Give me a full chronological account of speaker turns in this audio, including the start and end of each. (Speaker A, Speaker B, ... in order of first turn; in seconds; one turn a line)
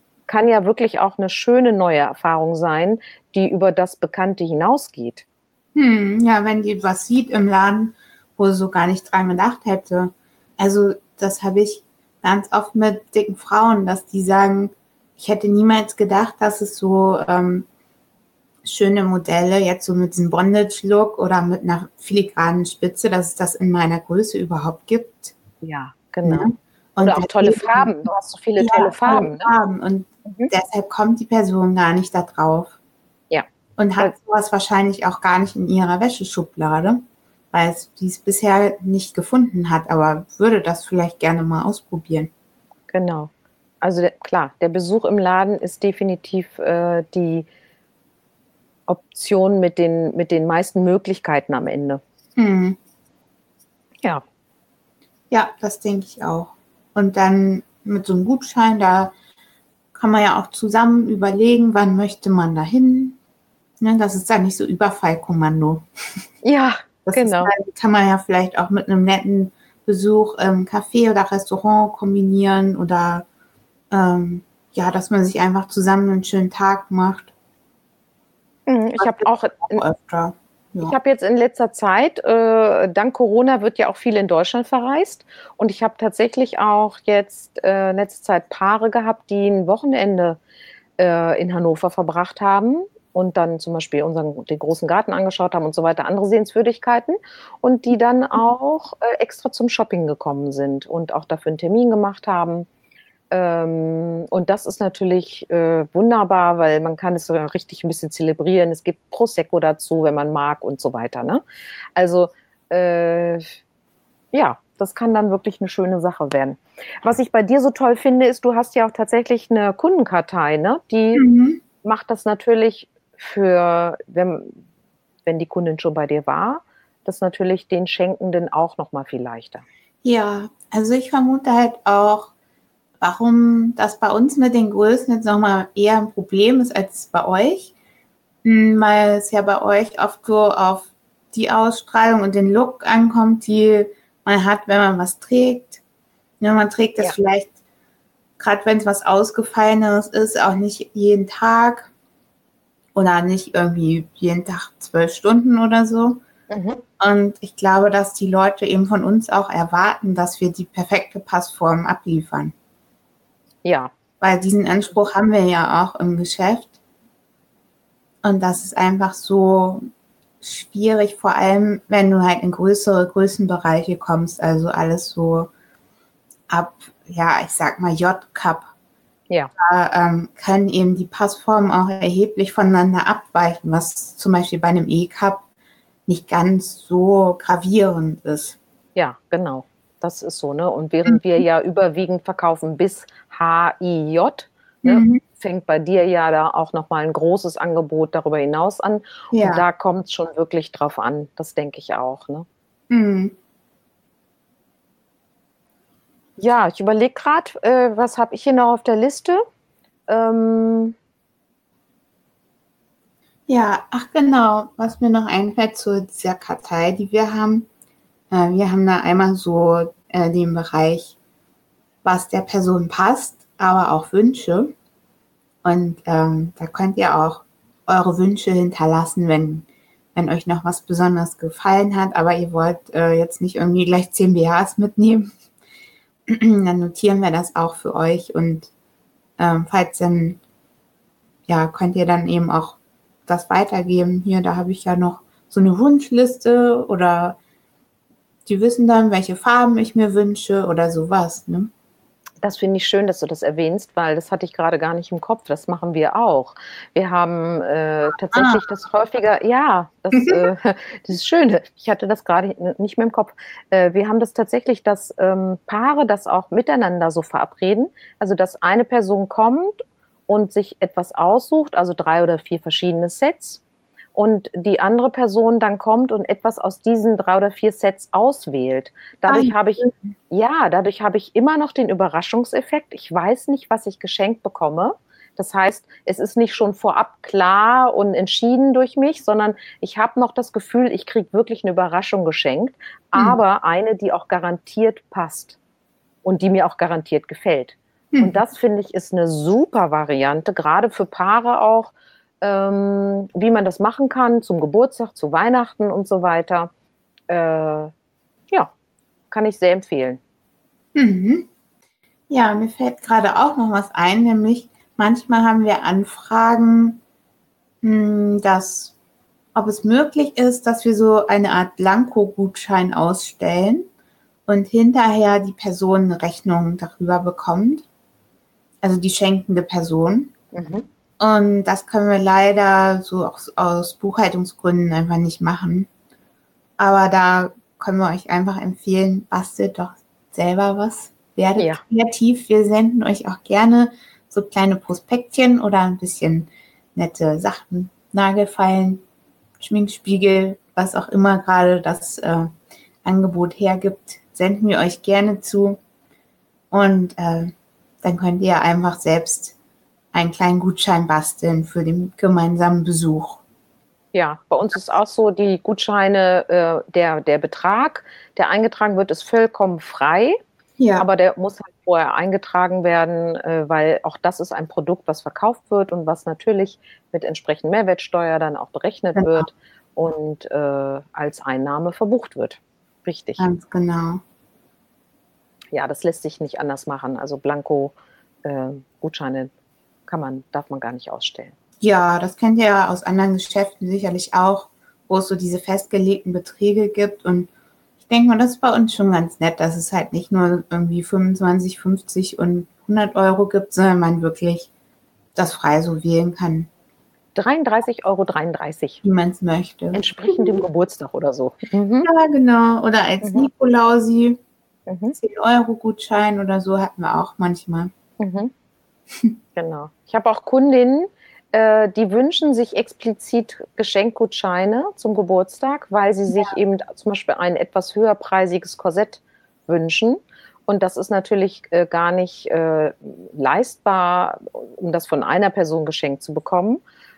Speaker A: 0.3-5.2
Speaker B: 5.8-17.7
Speaker B: 18.6-25.4
Speaker A: 25.6-29.5
Speaker B: 26.2-27.9
Speaker B: 28.6-32.8
Speaker A: 30.2-30.5
Speaker B: 33.8-42.3
Speaker A: 42.9-43.3
Speaker A: 43.8-47.5
Speaker A: 48.9-52.0
Speaker B: 52.4-52.8
Speaker B: 55.3-59.1
Speaker B: 59.9-63.2
Speaker B: 63.8-65.9
Speaker A: 66.4-67.5
Speaker B: 67.1-73.3
Speaker B: 73.9-77.3
Speaker A: 78.7-79.8
Speaker B: 79.0-81.0
Speaker A: 80.8-90.4
Speaker A: 91.0-102.7
Speaker A: 103.3-111.4
Speaker A: 112.0-113.6
Speaker A: 114.3-121.2
Speaker B: 121.1-121.6
Speaker A: 121.8-124.6
Speaker A: 125.3-129.6
Speaker B: 130.0-132.3
Speaker B: 133.0-137.7
Speaker B: 138.4-145.8
Speaker B: 146.4-147.5
Speaker B: 148.4-151.9
Speaker B: 152.9-156.2
Speaker A: 156.5-156.8
Speaker B: 157.0-162.6
Speaker A: 163.7-163.9
Speaker B: 164.2-166.8
Speaker B: 168.2-169.8
Speaker B: 170.4-175.5
Speaker B: 176.5-178.7
Speaker B: 179.6-185.4
Speaker B: 186.1-188.6
Speaker A: 189.0-202.5
Speaker B: 191.1-191.4
Speaker B: 194.8-195.2
Speaker B: 199.3-199.7
Speaker B: 202.9-203.3
Speaker A: 206.4-209.4
Speaker A: 210.1-211.0
Speaker B: 213.5-217.7
Speaker B: 218.3-221.2
Speaker B: 222.0-224.7
Speaker B: 225.6-235.3
Speaker B: 236.3-238.7
Speaker B: 239.4-240.4
Speaker B: 241.5-247.4
Speaker B: 248.5-251.7
Speaker A: 252.4-273.6
Speaker B: 258.3-258.6
Speaker B: 260.1-260.5
Speaker A: 274.1-295.6
Speaker B: 279.3-280.1
Speaker B: 293.1-293.4
Speaker A: 296.2-306.7
Speaker B: 298.1-298.4
Speaker A: 307.3-307.9
Speaker A: 309.3-310.2
Speaker B: 310.9-311.5
Speaker B: 312.3-317.0
Speaker B: 317.8-318.9
Speaker B: 319.6-323.9
Speaker B: 324.5-327.9
Speaker B: 328.8-330.3
Speaker A: 330.5-330.9
Speaker B: 331.2-335.9
Speaker B: 336.8-349.0
Speaker B: 349.6-352.5
Speaker B: 353.0-355.8
Speaker B: 356.7-359.6
Speaker B: 360.1-363.4
Speaker A: 364.1-370.4
Speaker B: 370.8-371.1
Speaker A: 371.0-383.5
Speaker B: 379.2-379.5
Speaker B: 383.4-384.2
Speaker A: 385.7-389.5
Speaker A: 390.1-391.6
Speaker B: 391.8-397.5
Speaker B: 398.1-404.7
Speaker B: 405.4-406.7
Speaker A: 407.4-409.0
Speaker B: 409.0-410.6
Speaker A: 409.9-412.1
Speaker B: 412.0-414.4
Speaker A: 413.2-413.5
Speaker A: 414.9-415.2
Speaker B: 415.2-417.9
Speaker A: 418.2-418.5
Speaker A: 419.6-436.8
Speaker B: 426.3-426.6